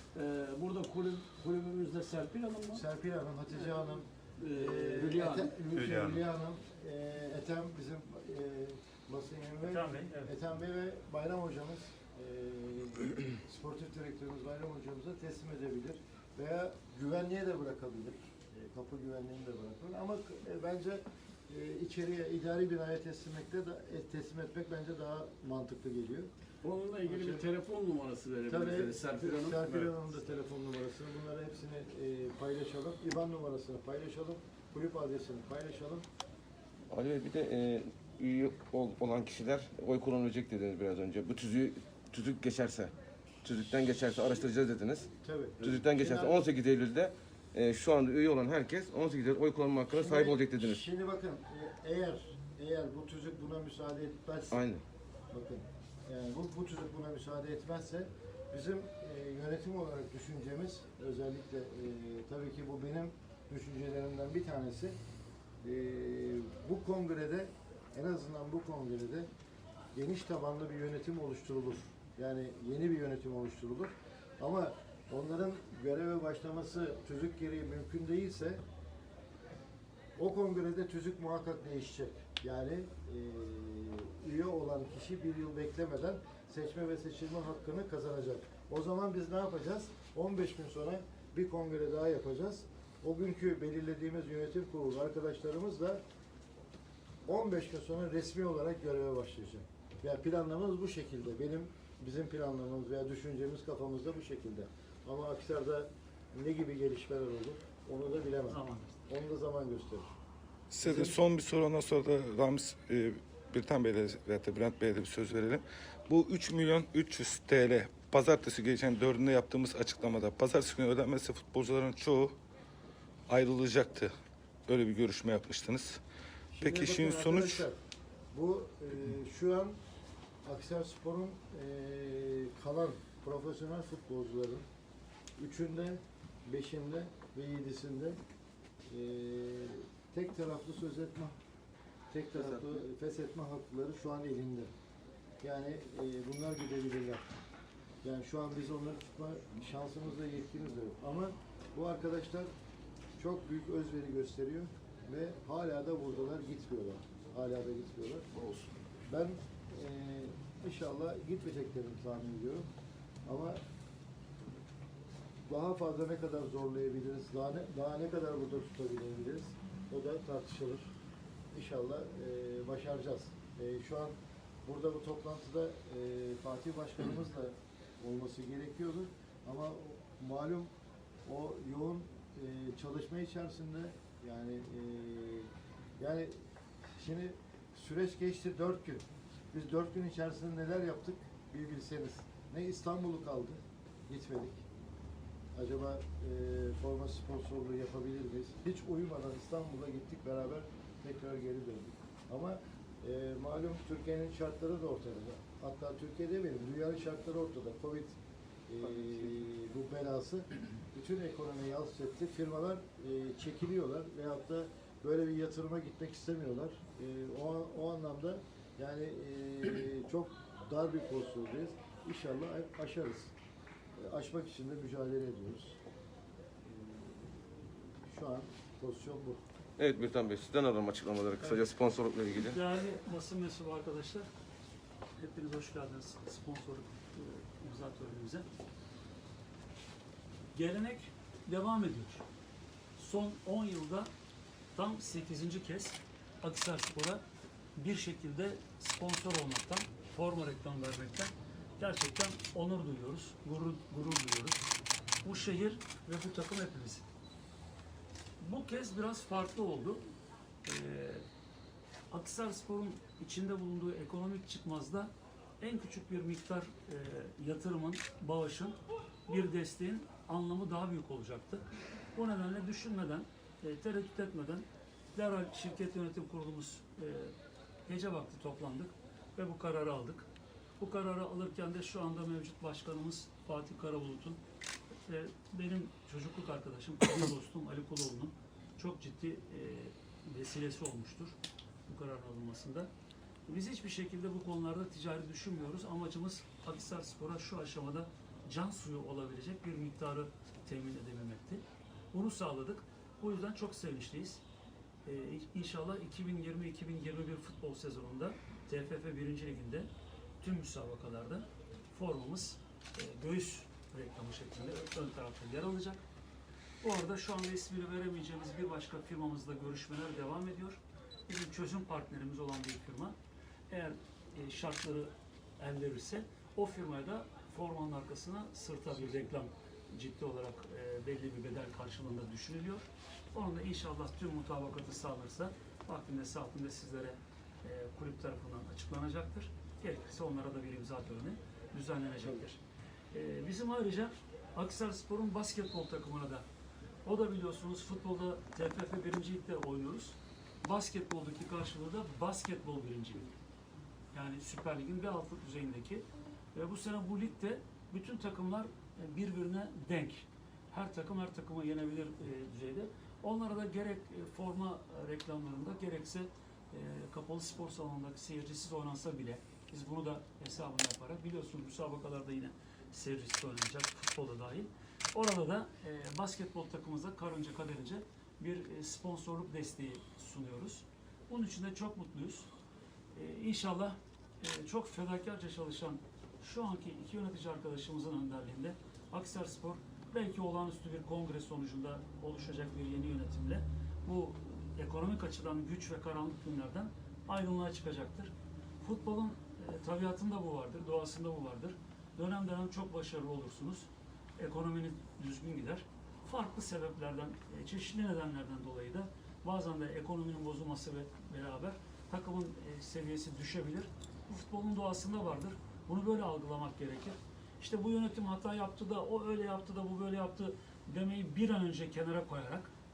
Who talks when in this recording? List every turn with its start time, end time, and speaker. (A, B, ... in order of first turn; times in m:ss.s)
0:00.1-0:02.8 A
0:02.7-0:26.3 B
0:04.4-0:05.6 A
0:09.6-0:10.3 C
0:26.6-0:29.9 A
0:27.0-0:27.4 B
0:28.5-0:36.0 B
0:36.9-0:50.8 D
0:45.2-0:46.4 B
0:49.9-0:54.7 B
0:54.5-0:54.8 D
0:55.3-1:05.0 B
1:05.6-1:09.3 B
1:09.9-1:18.6 B
1:20.2-1:36.0 B
1:37.2-1:50.1 B
1:48.5-1:49.0 C
1:50.7-2:02.4 E
1:50.8-1:51.2 B
2:03.3-2:04.1 E
2:04.7-2:06.0 E
2:06.5-2:07.8 B
2:06.6-2:07.6 E
2:08.3-2:09.8 B
2:10.4-2:14.7 B
2:15.4-2:18.2 B
2:18.9-2:21.4 B
2:22.1-2:24.7 B
2:22.4-2:22.8 D
2:25.4-2:27.3 B
2:28.0-2:32.5 B
2:33.2-2:38.3 B
2:39.1-2:42.7 B
2:43.2-2:43.6 B
2:45.5-2:50.9 B
2:51.5-3:00.7 B
3:01.2-3:06.4 B
3:07.0-3:14.6 B
3:15.5-3:28.2 B
3:28.7-3:43.3 B
3:44.0-3:45.8 B
3:46.6-3:49.4 B
3:49.8-3:52.6 D
3:52.3-3:54.3 C
3:55.2-3:58.5 C
4:00.5-4:02.2 C
4:03.0-4:04.1 C
4:04.7-4:07.2 C
4:07.8-4:14.6 C
4:15.2-4:17.0 C
4:18.4-4:20.0 C
4:20.6-4:21.2 C
4:22.1-4:28.8 C
4:29.3-4:37.3 C
4:37.9-4:40.3 C
4:40.8-4:44.4 C
4:45.1-4:51.4 C
4:51.9-4:52.9 C
4:53.5-5:04.4 C
5:05.0-5:09.9 C
5:10.4-5:16.0 C
5:16.8-5:23.2 C
5:23.7-5:42.6 C
5:43.1-5:46.4 C
5:47.0-5:53.3 C
5:54.1-6:22.5 C
6:23.1-7:02.7 C